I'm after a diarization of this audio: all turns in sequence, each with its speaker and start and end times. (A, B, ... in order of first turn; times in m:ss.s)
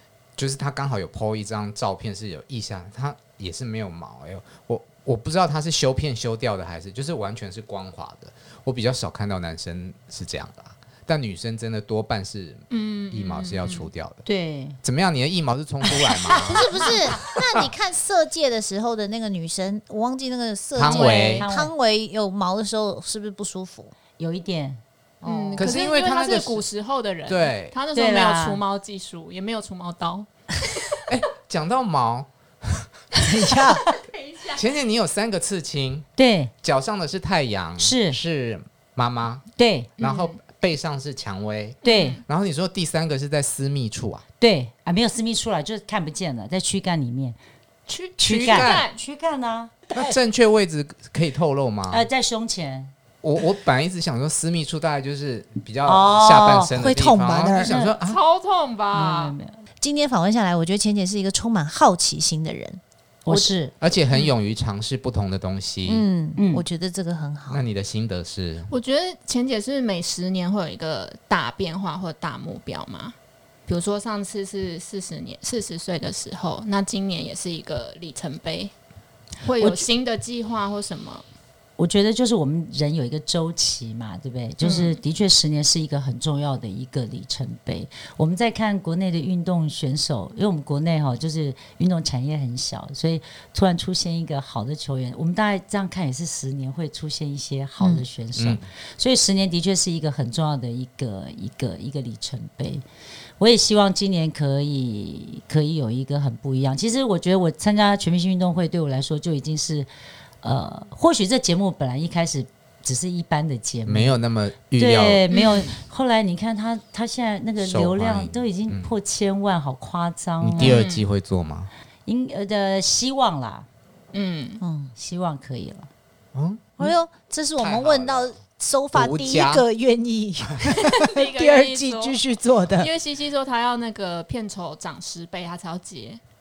0:00.4-0:14.2 A
0:12.7-0:13.9 B
0:14.2-0:14.8 C
0:14.8-0:16.7 A
0:16.2-0:16.7 C
0:16.4-0:23.9 D
0:20.7-0:21.4 A
0:20.8-0:21.3 B
0:21.4-0:21.7 C
0:24.2-0:25.7 C
0:25.2-0:30.3 B
0:25.6-0:26.6 A
0:27.3-0:27.7 A
0:27.9-0:28.6 C
0:31.1-0:32.9 A
0:33.2-0:33.8 D
0:33.9-0:34.6 B
0:34.5-0:36.1 A
0:36.2-0:36.5 C
0:36.6-0:39.4 A
0:37.8-0:38.2 C
0:39.6-0:39.9 C
0:40.0-0:44.2 A
0:40.0-0:40.4 B
0:41.8-0:42.2 B
0:41.8-0:42.2 C
0:44.4-0:47.4 C
0:47.9-0:49.0 B
0:48.2-0:49.8 C
0:48.5-0:48.8 A
0:49.9-0:52.0 A
0:51.9-0:52.9 C
0:53.2-0:58.2 A
0:55.8-0:56.7 C
0:56.7-0:57.7 D
0:57.6-0:57.9 C
0:58.0-0:59.3 B
0:58.9-0:59.6 C
0:59.8-1:03.5 D
1:03.2-1:03.7 C
1:03.8-1:06.0 A
1:05.8-1:07.6 D
1:06.4-1:06.6 C
1:07.5-1:08.7 A
1:08.7-1:13.1 B
1:13.7-1:18.7 B
1:19.4-1:21.2 B
1:19.6-1:19.8 C
1:21.8-1:42.8 C
1:24.6-1:25.0 B
1:37.8-1:38.0 D
1:38.4-1:38.6 A
1:43.4-1:49.9 C
1:50.4-1:54.1 C
1:53.8-1:55.3 A
1:54.8-2:00.8 C
1:55.3-1:55.7 B
1:57.6-1:58.9 A
2:00.4-2:01.7 A
2:00.6-2:01.0 B
2:02.0-2:03.7 C
2:04.1-2:04.6 B
2:04.6-2:04.9 D
2:04.9-2:05.9 C
2:06.3-2:06.9 A
2:06.8-2:12.9 D
2:07.6-2:09.6 A
2:10.9-2:12.2 B
2:12.8-2:16.2 B